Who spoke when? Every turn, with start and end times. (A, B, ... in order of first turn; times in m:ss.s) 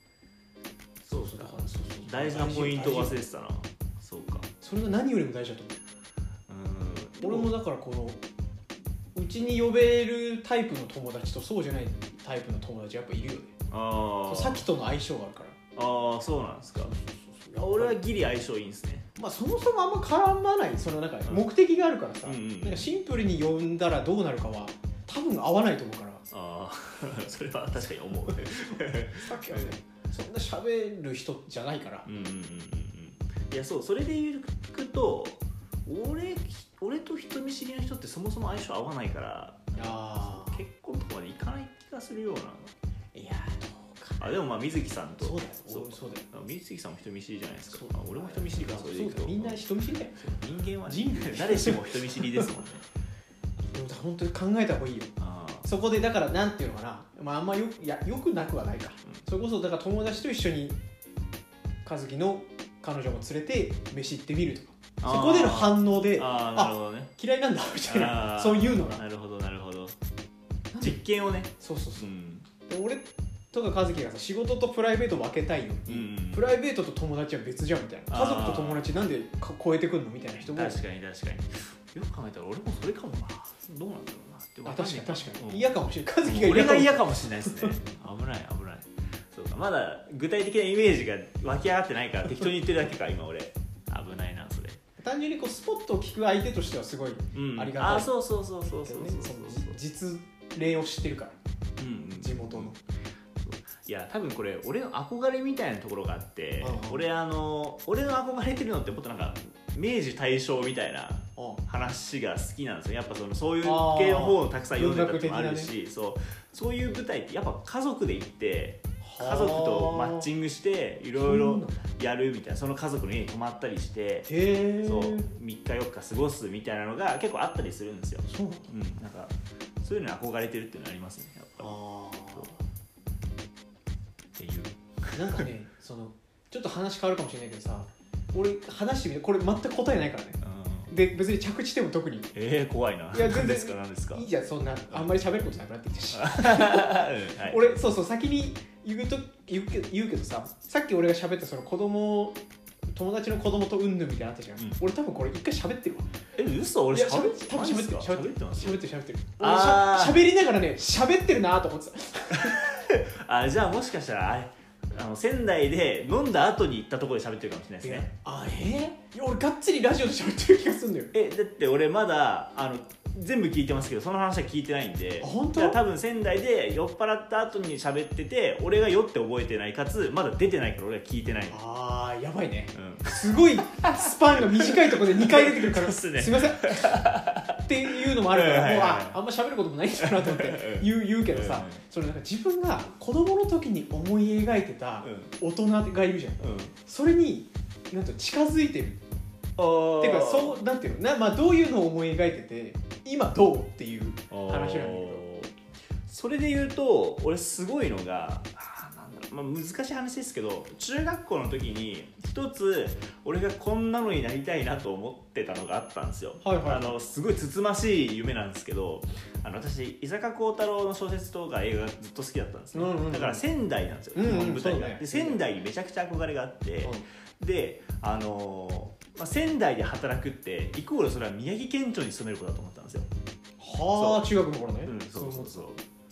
0:01.0-0:04.5 A
0:01.1-0:03.2 B
0:04.6-0:05.8 B
0:06.5-0:07.5 A
0:07.2-0:08.2 B
0:09.1-0:13.6 B
0:13.7-0:14.7 A
0:14.3-0:15.6 B
0:15.8-0:16.9 A
0:16.8-0:18.0 B
0:17.6-0:19.1 A
0:19.2-0:26.2 B
0:22.2-0:22.9 A
0:26.3-0:29.8 A
0:29.2-0:32.1 B
0:32.0-0:42.7 A
0:39.8-0:40.6 B
0:43.1-0:44.4 B
0:44.2-0:52.8 A
0:45.2-0:46.3 B
0:47.7-0:50.2 B
0:50.8-0:52.5 B
0:53.7-1:00.8 B
0:55.2-0:55.7 A
1:01.8-1:09.0 B
1:05.0-1:07.1 A
1:07.9-1:10.0 A
1:10.7-1:11.0 B
1:10.8-1:12.5 A
1:11.6-1:12.1 B
1:12.7-1:20.8 B
1:15.9-1:16.5 A
1:18.1-1:18.9 A
1:20.4-1:25.7 A
1:24.6-1:27.8 B
1:26.2-1:34.8 A
1:35.0-1:38.1 B
1:37.3-1:39.8 A
1:38.8-1:41.4 B
1:41.8-1:42.8 A
1:42.2-1:42.8 B
1:43.4-2:11.7 A
1:46.6-1:47.0 B
1:53.6-1:55.7 B
1:59.0-2:00.3 B
2:01.2-2:01.8 B
2:04.3-2:05.3 B
2:08.3-2:08.7 B
2:11.6-2:12.6 B
2:14.4-2:15.4 A
2:15.1-2:22.3 B
2:20.4-2:20.9 A
2:22.3-2:24.3 A
2:23.1-2:32.4 B
2:26.1-2:27.8 A
2:32.9-2:36.1 B
2:36.3-2:38.8 A
2:36.9-2:42.7 B
2:39.4-2:40.3 A
2:42.4-2:48.1 A
2:47.8-2:51.1 B
2:51.1-3:01.6 A
2:55.2-2:55.8 B
3:01.5-3:06.9 B
3:02.7-3:09.2 A
3:07.6-3:19.0 B
3:10.0-3:11.8 A
3:15.0-3:15.3 A
3:16.4-3:16.8 A
3:19.6-3:20.6 A
3:20.0-3:25.2 B
3:24.3-3:25.5 A
3:26.1-3:53.1 A
3:36.4-3:37.0 B
3:42.7-3:43.4 B
3:44.2-3:45.4 B
3:53.6-3:55.7 B
3:53.9-3:54.3 A
3:54.8-3:55.8 A